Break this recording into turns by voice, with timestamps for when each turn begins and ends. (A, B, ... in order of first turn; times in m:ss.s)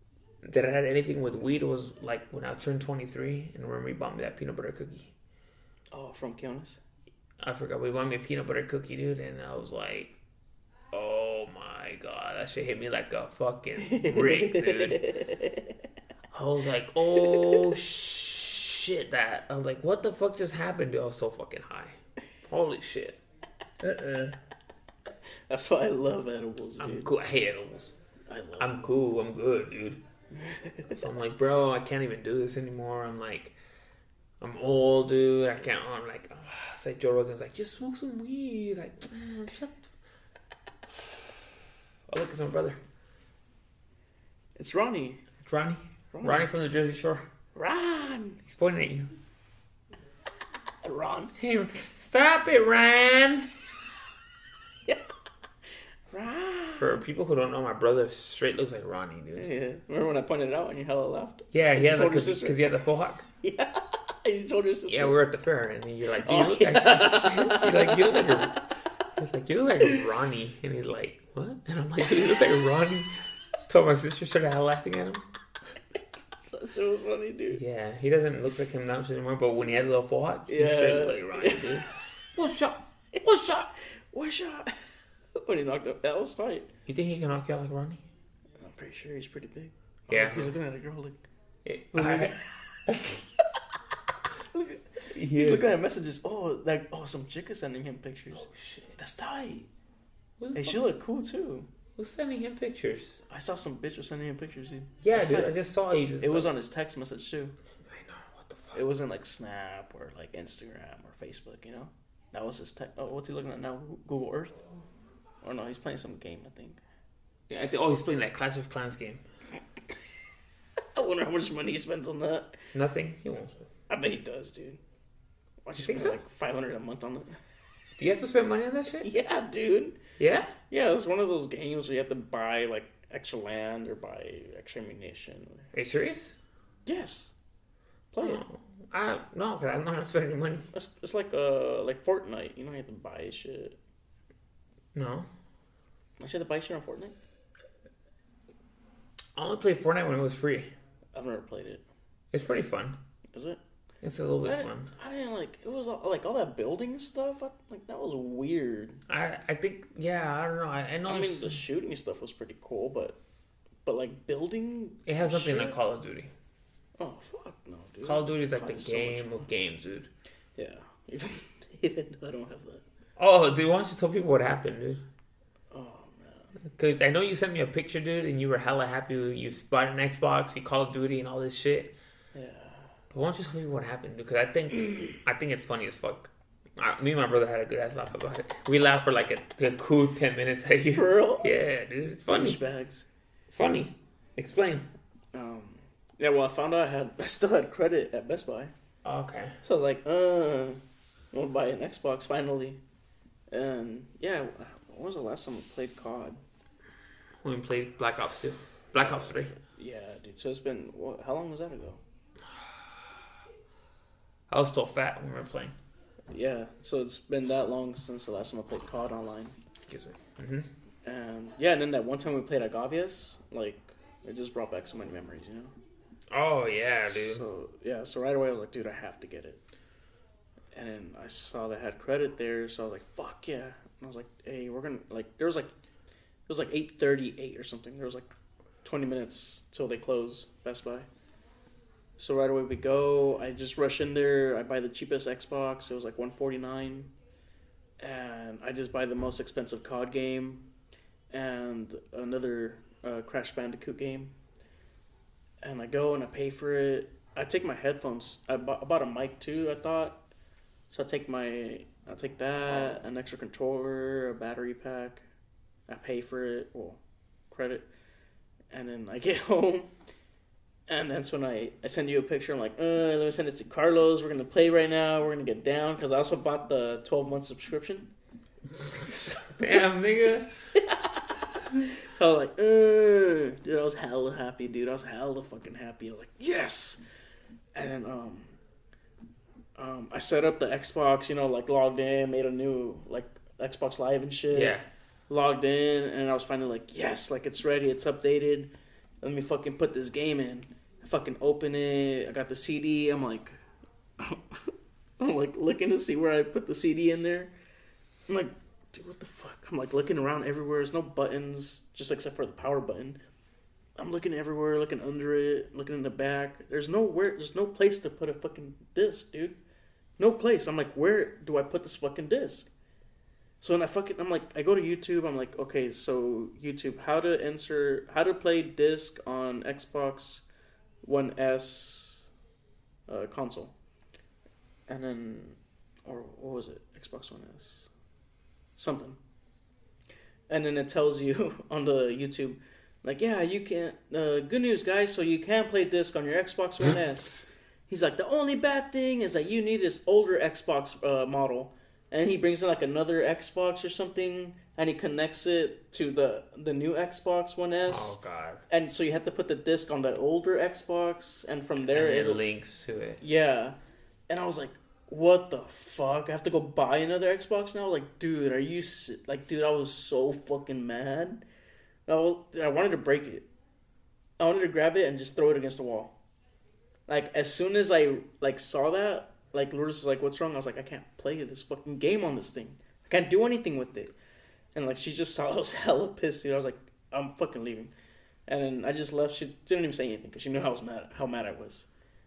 0:00.4-0:05.1 A
0:05.9-0:06.8 B
0:07.4-0:10.2 A
0:10.9-0:15.0 A
0:13.8-0:15.7 B
0:16.3-0:23.2 A
0:17.3-0:17.6 B
0:23.8-0:24.4 A
0:25.5-0:27.1 B
0:26.8-0:27.9 A
0:28.3-0:29.0 B
0:28.6-0:30.0 A
0:30.3-0:31.0 B
0:30.9-0:33.6 A
0:34.4-0:39.9 A
0:42.1-0:42.8 A
0:44.6-0:45.2 B
0:45.4-0:47.2 A
0:46.1-0:46.5 B
0:47.5-0:48.4 B
0:48.4-0:49.1 A
0:50.8-0:51.3 B
0:51.4-0:53.5 A
0:56.1-0:57.0 B
0:56.7-0:59.5 A
0:59.4-1:02.6 B
1:01.5-1:03.2 A
1:03.4-1:05.2 B
1:04.9-1:08.6 A
1:06.2-1:08.3 B
1:09.2-1:13.1 A
1:13.7-1:15.2 A
1:16.5-1:17.6 B
1:17.5-1:23.7 A
1:20.5-1:21.8 B
1:23.9-1:26.7 B
1:26.9-1:28.0 A
1:28.6-1:31.2 B
1:30.1-1:30.5 A
1:31.6-1:32.4 A
1:31.9-1:33.2 B
1:34.5-1:39.7 B
1:35.1-1:35.8 A
1:38.4-1:39.0 A
1:40.4-1:40.9 A
1:40.6-1:41.7 B
1:42.0-1:43.2 A
1:43.3-1:45.5 B
1:45.0-1:46.5 A
1:46.2-1:47.5 B
1:47.9-1:48.8 A
1:48.7-1:54.6 B
1:55.4-1:56.8 B
1:57.5-1:59.2 A
2:00.9-2:02.6 B
2:02.7-2:03.7 A
2:03.9-2:04.8 B
2:05.6-2:07.4 B
2:05.8-2:06.2 A
2:08.0-2:09.1 A
2:09.0-2:10.0 B
2:10.2-2:10.5 A
2:10.7-2:15.6 B
2:15.7-2:16.4 A
2:16.8-2:17.3 B
2:18.1-2:18.4 B
2:18.2-2:20.7 A
2:20.7-2:23.8 B
2:24.9-2:25.3 A
2:26.2-2:27.2 B
2:29.3-2:30.7 A
2:31.1-2:31.8 B
2:32.3-2:33.0 A
2:33.3-2:33.6 B
2:34.0-2:34.9 A
2:34.4-2:39.0 B
2:39.1-2:41.6 A
2:41.1-2:43.2 B
2:43.8-2:45.8 B
2:45.0-2:46.3 A
2:47.0-2:49.4 B
2:48.0-2:50.1 A
2:50.6-2:52.8 B
2:53.2-2:55.0 A
2:55.7-2:56.5 B
2:56.7-3:01.9 A
3:02.3-3:02.9 B
3:03.1-3:12.6 A
3:10.9-3:11.5 B
3:12.3-3:13.0 B
3:13.5-3:14.8 A
3:15.3-3:18.7 B
3:19.0-3:19.6 A
3:19.6-3:20.8 B
3:21.3-3:22.8 B
3:23.5-3:26.4 B
3:27.4-3:29.5 A
3:29.0-3:32.0 B
3:34.5-3:35.7 A
3:36.3-3:39.6 B
3:39.8-3:40.7 A
3:41.0-3:45.7 B
3:46.3-3:47.4 A
3:47.1-3:49.6 B
3:50.7-3:55.7 B
3:56.5-3:58.3 B
3:58.8-4:01.1 B
4:02.2-4:07.1 B
4:08.0-4:10.6 B
4:11.3-4:14.3 B
4:15.6-4:20.2 B
4:20.9-4:25.2 B
4:25.9-4:27.8 B
4:28.7-4:29.9 B
4:30.9-4:38.1 B
4:38.8-4:40.5 A
4:39.2-4:39.4 B
4:41.9-4:47.0 B
4:47.7-4:48.6 B
4:49.8-4:54.8 B
4:54.5-4:54.8 A
4:55.3-4:58.7 B
4:59.2-5:03.6 B
5:04.2-5:07.5 B
5:08.3-5:13.2 B
5:14.0-5:19.6 B
5:20.2-5:22.7 B
5:23.6-5:30.4 B
5:31.0-5:32.2 B
5:33.1-5:33.7 B
5:34.9-5:37.9 B
5:38.8-5:39.2 B
5:40.5-5:58.2 B
5:57.9-5:58.6 A
5:58.7-6:02.4 B
6:01.9-6:03.2 A
6:03.2-6:03.8 B
6:04.3-6:11.4 B
6:12.1-6:13.4 B
6:14.4-6:16.1 B
6:17.1-6:24.1 B
6:24.7-6:27.9 B
6:28.5-6:31.8 B